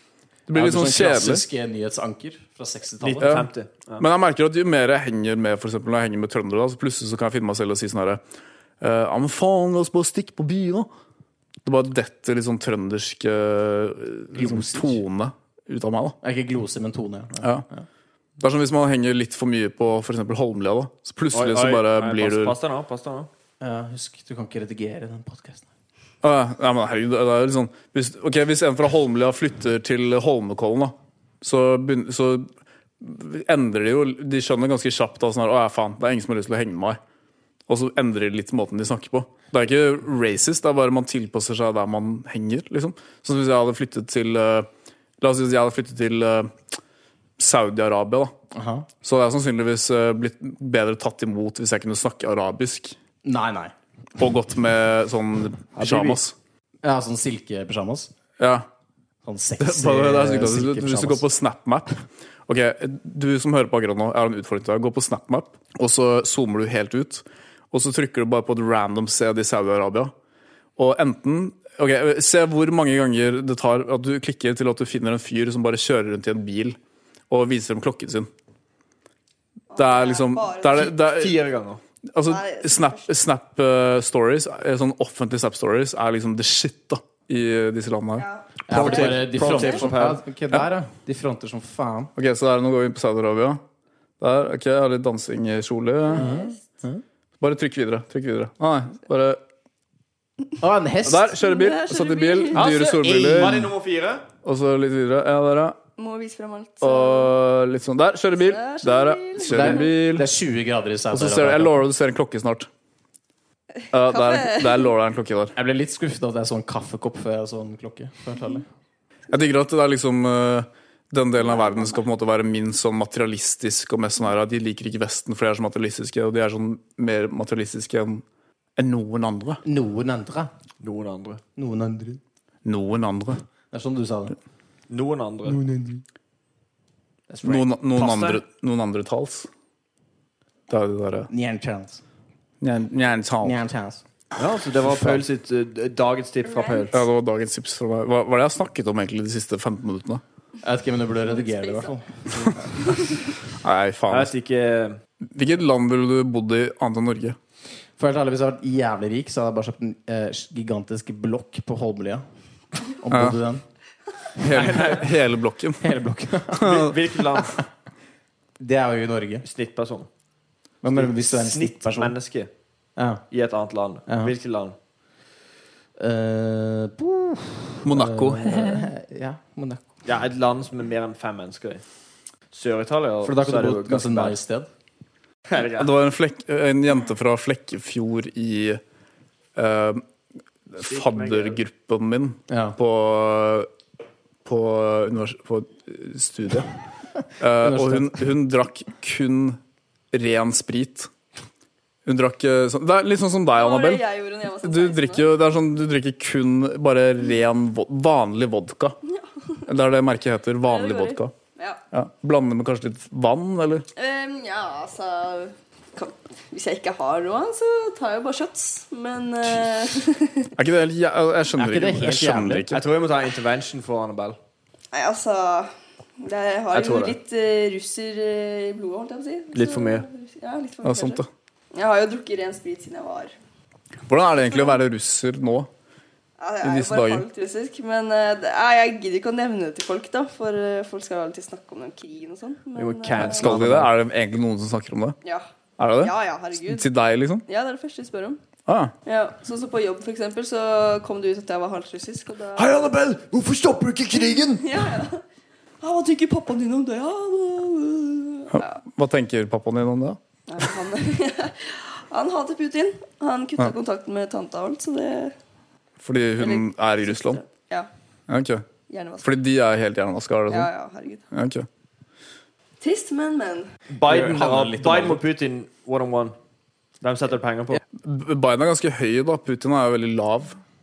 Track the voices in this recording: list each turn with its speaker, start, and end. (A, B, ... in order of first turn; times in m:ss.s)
0:00.5-0:01.4 A
0:00.5-0:03.3 B
0:03.0-0:04.0 C
0:03.2-0:08.2 A
0:08.8-0:10.9 A
0:11.6-0:16.2 A
0:14.3-0:15.0 B
0:16.2-0:17.8 B
0:18.4-0:22.6 A
0:21.3-0:23.3 C
0:23.6-0:25.6 B
0:26.2-0:37.0 A
0:37.7-0:44.7 A
0:45.2-0:46.5 A
0:47.4-0:48.3 A
0:48.5-0:48.9 B
0:49.0-0:53.0 A
0:53.2-0:53.7 B
0:54.2-0:56.3 A
0:55.8-0:56.2 C
0:56.8-0:58.1 B
0:58.4-0:58.6 A
0:59.2-1:01.2 B
0:59.6-1:01.9 A
1:02.5-1:10.1 A
1:10.8-1:16.8 A
1:17.3-1:18.3 A
1:19.7-1:20.8 D
1:19.7-1:21.4 A
1:20.7-1:21.8 C
1:22.1-1:28.3 A
1:22.3-1:23.1 D
1:28.2-1:29.8 D
1:28.7-1:32.1 B
1:28.7-1:30.2 C
1:32.2-1:33.6 A
1:34.2-1:36.3 A
1:36.1-1:36.5 D
1:36.2-1:37.0 B
1:37.4-1:39.4 A
1:40.6-1:41.3 B
1:41.0-1:43.7 A
1:41.3-1:42.8 D
1:42.5-1:44.2 C
1:44.4-1:45.8 A
1:46.0-1:47.3 D
1:46.8-1:50.3 A
1:48.4-1:49.9 D
1:49.4-1:51.8 B
1:51.1-1:52.7 A
1:53.9-1:55.5 A
1:53.9-1:54.9 D
1:55.5-1:58.7 B
1:59.3-2:08.2 A
2:08.8-2:09.6 A
2:09.6-2:10.5 B
2:10.8-2:11.4 C
2:11.6-2:12.2 B
2:12.6-2:13.4 A
2:13.7-2:14.4 B
2:14.9-2:15.6 C
2:15.4-2:16.0 B
2:17.3-2:17.7 B
2:17.4-2:19.5 A
2:18.0-2:18.4 C
2:20.7-2:21.3 A
2:21.3-2:22.0 B
2:22.6-2:23.6 A
2:23.4-2:24.0 B
2:24.4-2:27.0 C
2:24.8-2:25.2 A
2:26.4-2:27.0 D
2:26.9-2:30.2 A
2:30.6-2:33.0 B
2:31.3-2:31.9 D
2:33.5-2:34.3 A
2:34.1-2:35.0 C
2:35.3-2:37.4 A
2:38.0-2:42.2 B
2:42.9-2:43.6 B
2:43.1-2:43.4 A
2:44.4-2:44.9 B
2:44.4-2:45.9 A
2:44.5-2:45.0 C
2:45.8-2:46.9 B
2:46.6-2:47.6 C
2:46.6-2:46.9 A
2:48.6-2:49.4 B
2:49.4-2:50.1 C
2:50.8-2:52.1 B
2:50.9-2:52.5 C
2:53.0-2:53.2 B
2:53.3-2:54.7 C
2:56.0-2:59.8 B
2:57.8-2:58.9 A
3:00.0-3:01.8 C
3:02.5-3:04.4 C
3:03.2-3:04.7 B
3:05.5-3:05.9 C
3:05.6-3:08.8 A
3:09.6-3:10.0 A
3:10.7-3:13.7 A
3:10.8-3:11.6 C
3:12.5-3:12.8 B
3:14.4-3:16.7 A
3:17.4-3:19.6 A
3:17.6-3:18.2 B
3:20.1-3:21.1 A
3:22.0-3:24.0 A
3:23.5-3:25.3 D
3:24.6-3:29.0 A
3:29.6-3:31.3 A
3:30.6-3:31.8 D
3:31.9-3:33.8 A
3:34.0-3:40.5 D
3:40.6-3:42.8 A
3:41.6-3:42.7 B
3:42.7-3:44.4 C
3:44.9-3:51.2 D
3:46.7-3:47.2 C
3:49.5-3:50.1 C
3:50.8-3:51.3 A
3:51.7-3:53.3 D
3:54.1-3:55.7 A
3:56.4-4:03.5 D
3:56.6-3:57.2 A
4:02.7-4:03.9 C
4:03.1-4:05.2 A
4:05.8-4:07.4 A
4:06.0-4:06.9 D
4:07.4-4:08.4 D
4:08.7-4:08.9 A
4:09.0-4:12.7 D
4:12.6-4:14.8 C
4:14.6-4:15.2 D
4:15.8-4:18.8 D
4:18.5-4:20.2 A
4:20.5-4:25.3 D
4:26.0-4:27.4 A
4:26.4-4:27.9 D
4:28.3-4:28.6 A
4:28.9-4:29.3 D
4:29.2-4:30.7 A
4:30.5-4:31.2 D
4:31.3-4:31.7 A
4:32.8-4:33.7 D
4:33.9-4:36.3 C
4:34.0-4:35.2 B
4:37.0-4:37.8 C
4:37.9-4:40.6 A